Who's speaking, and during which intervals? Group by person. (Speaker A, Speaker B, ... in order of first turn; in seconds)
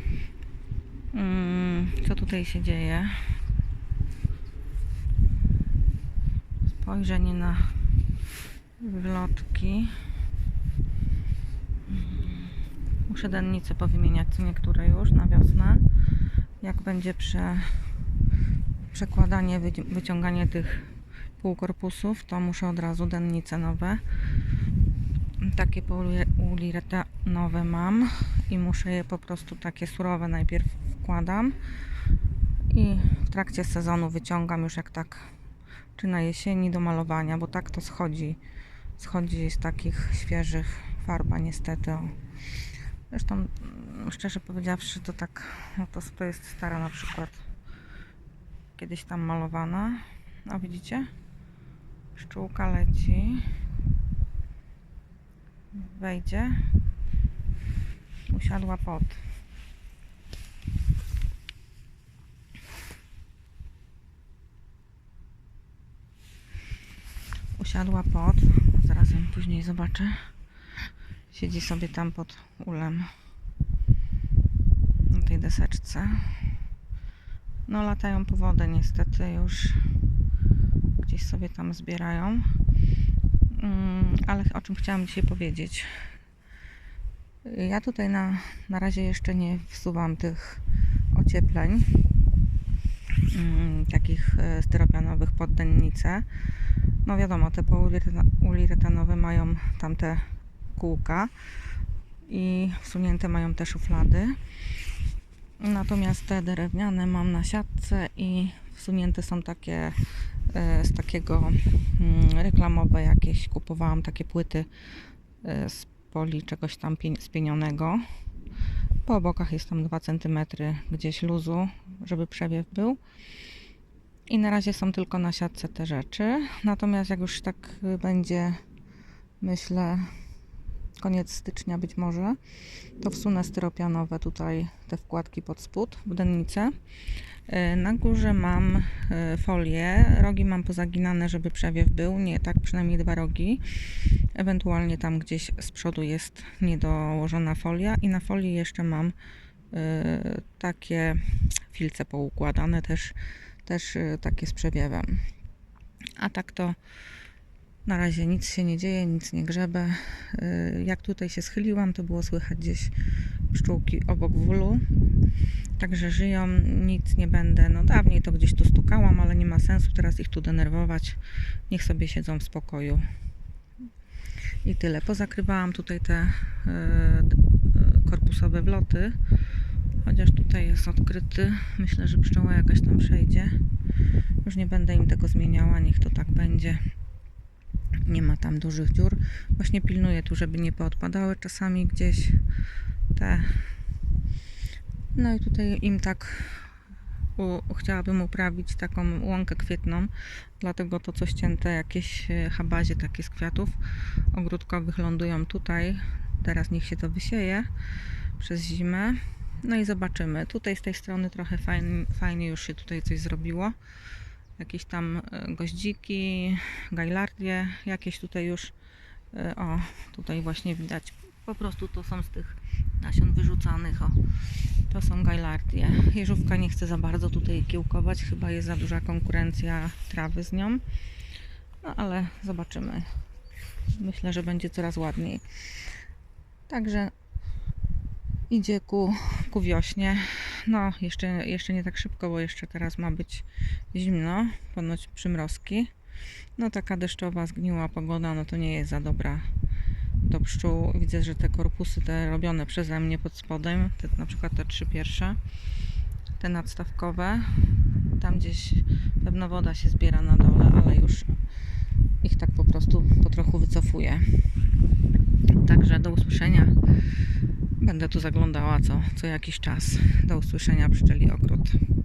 Speaker A: 1.1-3.2, 6.7-7.7, 8.8-10.0, 13.1-15.8, 16.6-17.9, 18.9-20.9, 21.4-24.0, 25.4-31.6, 32.7-35.3, 36.0-38.4, 39.0-42.2, 43.1-47.4, 48.8-51.1, 52.1-53.5, 55.7-56.7, 58.3-59.2, 67.6-70.2, 71.3-73.1, 75.1-76.4, 77.7-79.8, 81.0-82.5, 83.5-86.0, 87.5-90.6, 91.1-91.9, 93.3-96.3, 97.0-101.3, 102.3-104.4, 105.6-110.0, 110.5-114.7, 115.4-118.0, 119.1-123.0, 124.3-128.6, 129.4-130.1, 131.0-132.4, 133.0-136.8, 137.5-149.2, 149.7-155.2, 156.2-156.8, 157.8-162.9, 163.5-164.8, 165.8-173.1, 174.6-179.2, 180.0-183.6, 184.4-186.8, 188.1-192.4, 193.1-193.7, 195.2-196.7, 197.4-203.8, 204.3-207.7, 208.4-213.8, 214.6-218.7, 219.3-224.3, 224.9-230.8, 231.8-233.1, 233.9-235.4, 236.7-237.1, 238.5-245.9, 246.6-249.5, 250.2-255.4, 256.4-261.4, 262.2-264.3, 265.5-266.8, 267.8-271.8